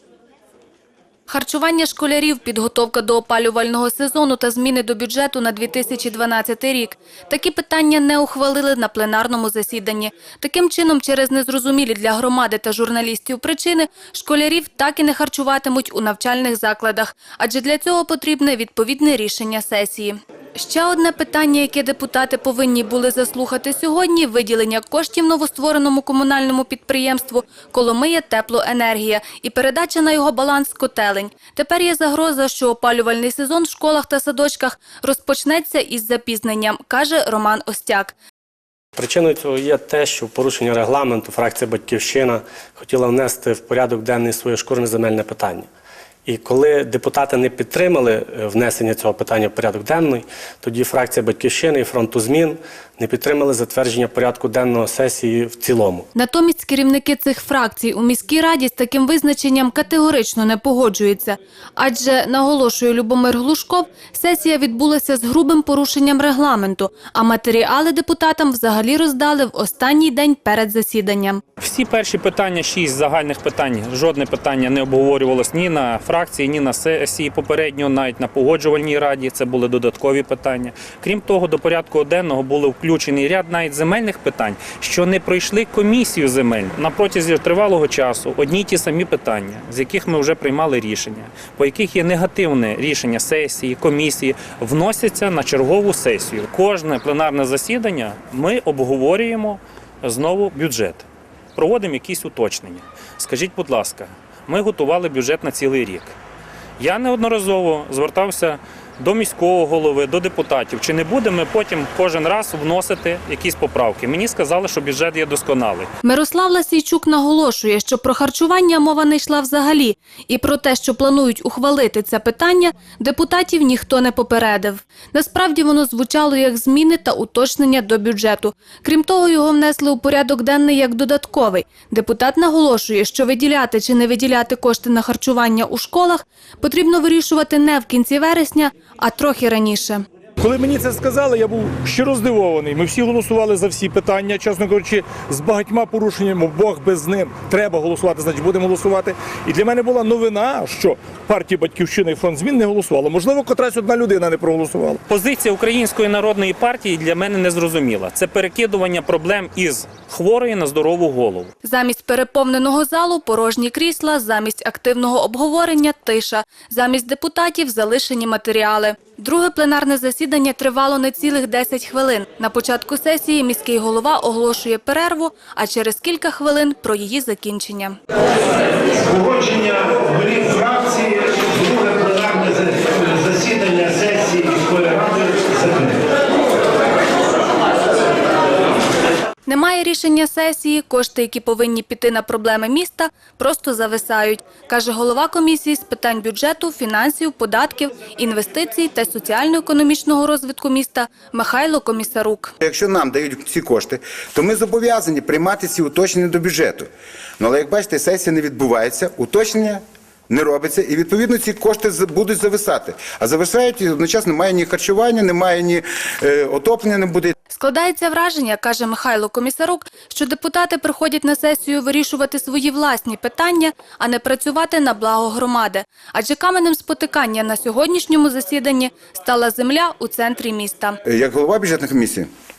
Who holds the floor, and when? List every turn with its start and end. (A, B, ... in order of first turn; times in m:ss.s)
0:01.3-0:38.1 A
0:39.0-0:45.7 B
0:46.2-0:56.0 B
0:56.1-1:11.4 A
1:11.6-1:46.1 C
1:46.8-1:55.9 C
1:56.0-2:20.1 A
2:20.4-2:35.0 D
2:35.1-2:41.5 C
2:41.6-2:58.0 A
2:59.1-3:05.9 E
3:09.4-3:22.5 A
3:22.6-3:37.3 F
3:37.5-3:51.0 A
3:51.0-3:52.3 F